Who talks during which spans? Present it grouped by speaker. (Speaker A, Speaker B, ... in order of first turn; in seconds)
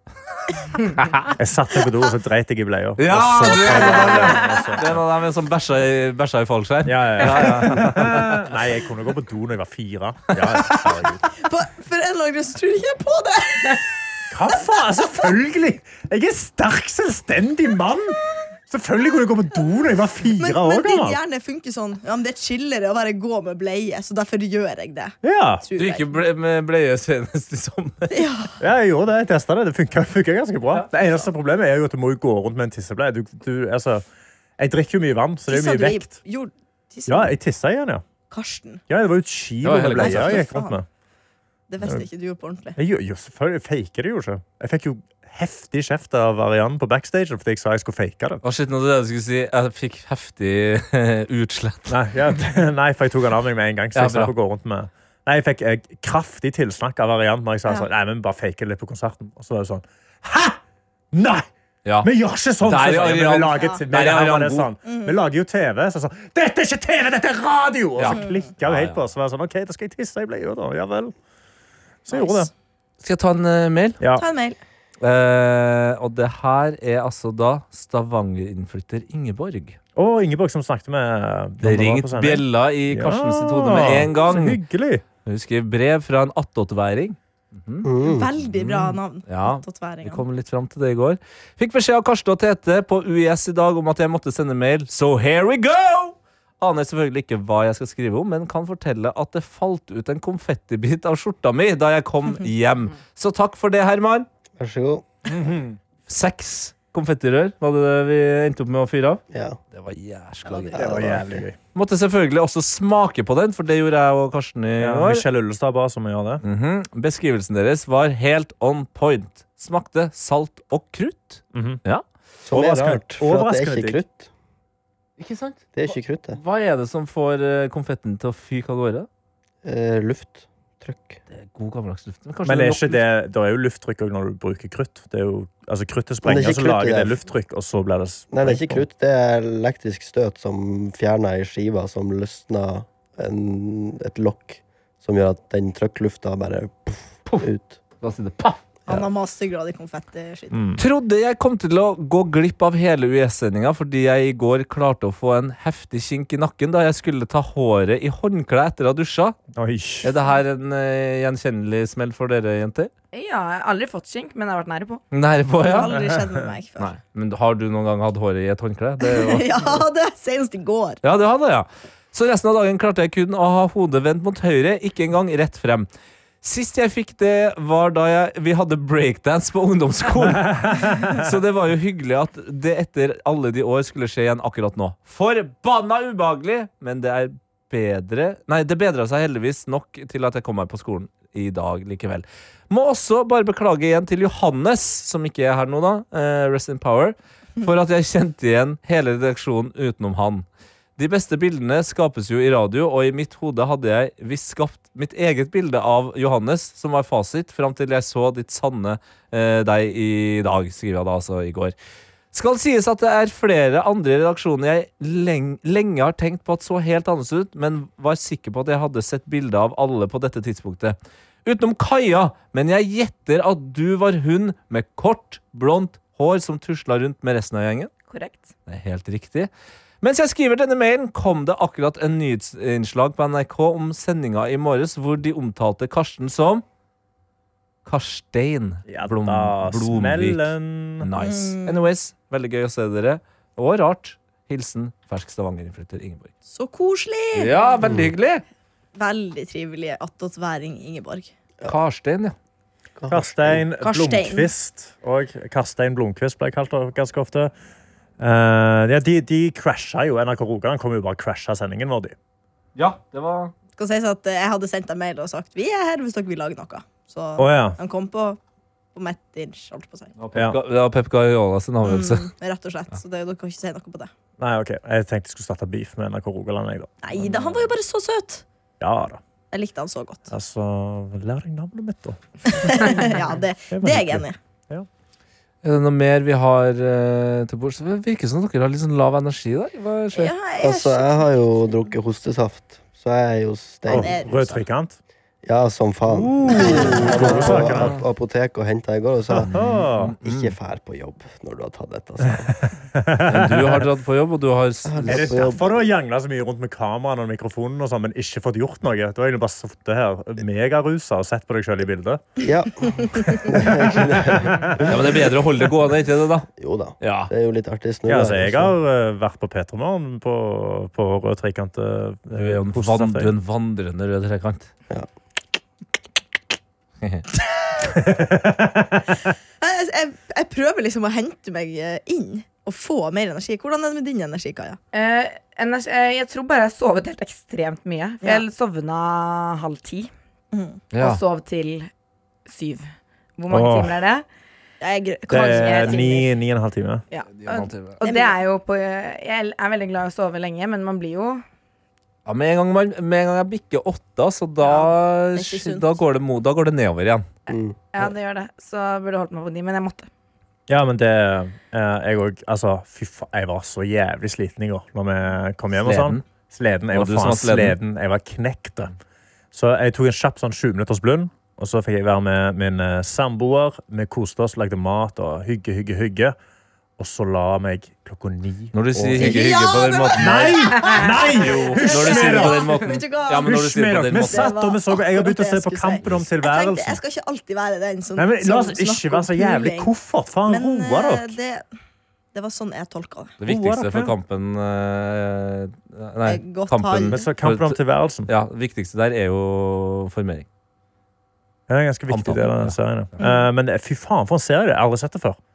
Speaker A: 0.8-1.3, 3.0-8.5, 25.8-28.1, 39.6-40.5, 48.4-52.0, 54.0-54.3, 61.9-62.1, 62.6-64.7, 68.0-69.0, 73.0-74.0, 75.0-79.8, 81.6-84.6, 85.2-87.9, 88.5-104.3, 106.1-111.2, 111.8-115.2, 116.4-122.0, 125.2-129.1, 131.3-133.0, 148.0-148.6, 150.8-159.4, 160.0-162.9, 165.1-165.9, 166.8-169.5, 171.0-175.9, 176.4-200.5, 201.0-211.8, 212.3-227.9, 228.7-229.5, 230.0-236.6, 237.8-246.3, 247.3-248.4, 251.7-252.3, 262.8-263.5, 270.2-272.3, 285.6-290.3, 297.7-298.0, 299.5-300.6, 303.3-305.6, 314.9-316.5, 317.0-317.3, 322.3-324.7, 340.9-341.2, 347.4-348.0, 352.2-357.3, 365.8-366.2, 366.9-367.8, 378.7-380.7, 381.4-384.5, 393.4-400.5, 402.1-402.8
Speaker B: 1.4-5.0, 6.9-11.3, 14.3-21.2, 25.2-25.6, 28.6-34.0, 34.6-36.1, 37.1-38.0, 38.9-40.9, 42.8-48.4, 51.9-60.6, 61.1-61.5, 62.0-71.1, 72.0-72.5, 80.0-85.0, 105.3-105.8, 110.8-111.6, 114.8-116.4, 121.5-121.8, 122.5-124.0, 132.5-138.8, 150.5-150.8, 159.6-160.1, 165.8-166.5, 180.4-181.3, 238.9-241.1, 253.1-257.5, 258.2-262.2, 267.4-267.8, 274.4-277.5, 278.8-279.2, 280.3-283.2, 283.7-284.9, 293.9-295.0, 296.1-298.0, 299.3-300.1, 302.8-303.9, 305.1-312.3, 313.4-314.5, 318.1-323.3, 327.9-329.1, 343.5-344.0, 345.3-347.0, 360.7-368.9, 369.5-376.4, 377.0-379.4, 380.2-382.7, 383.4-387.0, 388.2-391.4, 393.5-394.1, 397.1-398.3, 401.7-405.4
Speaker C: 11.3-13.8, 20.4-26.2, 28.1-28.5, 35.5-37.4, 38.3-38.8, 40.0-40.8, 41.7-42.8, 63.5-63.8, 64.8-65.2, 68.1-68.5, 72.1-72.5, 74.2-74.6, 88.0-90.2, 110.5-110.8, 148.9-150.6, 165.7-166.9, 169.0-171.0, 241.2-241.8, 246.5-247.7, 249.0-251.3, 253.8-254.5, 263.8-268.4, 268.9-270.1, 271.8-274.1, 277.0-278.4, 279.5-280.3, 282.5-284.4, 290.1-291.9, 293.9-294.6, 296.5-297.6, 312.9-313.3, 329.6-334.8, 340.5-340.8, 344.8-346.2, 348.0-348.4, 354.6-356.0, 379.2-383.6, 384.3-389.9, 390.5-391.6, 392.3-393.4, 396.2-397.2
Speaker D: 87.8-88.3, 104.6-105.0, 109.3-109.6, 110.7-111.5, 122.4-124.3, 125.8-126.4, 129.6-131.2, 136.2-137.2, 138.3-147.8, 253.0-253.6, 290.6-294.6, 295.4-299.7, 300.2-302.6, 304.9-305.8, 312.4-315.5, 316.6-318.8, 357.5-357.8
Speaker E: 163.1-165.0, 228.1-228.5, 334.9-340.1, 341.0-341.9, 342.5-344.2, 345.3-346.3, 347.1-351.4, 357.9-360.1